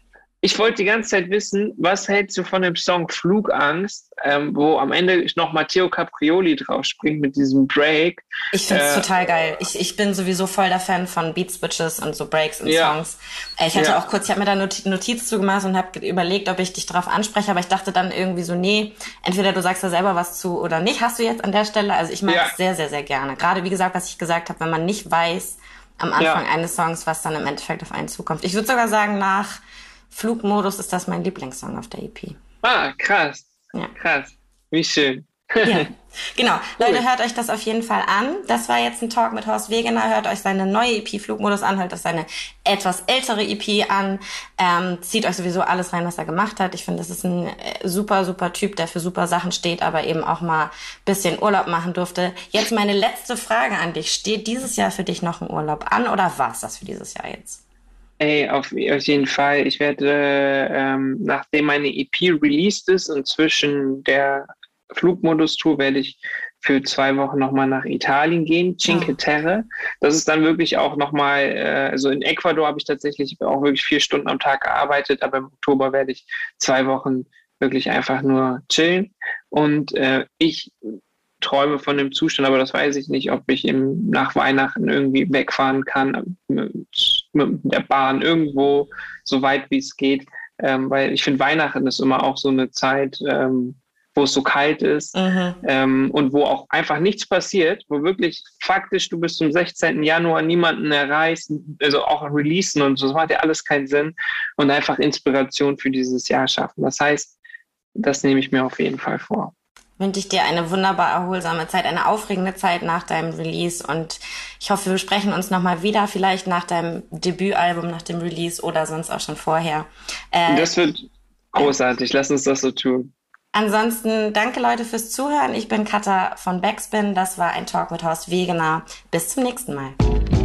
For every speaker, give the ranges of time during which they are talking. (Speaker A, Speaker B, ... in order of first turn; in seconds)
Speaker A: 0.4-9.1, 12.6-13.0, 22.3-22.5, 26.2-26.4, 32.6-35.9, 36.8-37.0, 58.2-107.3, 108.0-109.5, 120.5-123.1
Speaker B: 8.5-29.6, 30.1-32.4, 35.6-57.6, 68.9-69.1, 95.1-95.6, 110.0-120.7, 123.5-129.9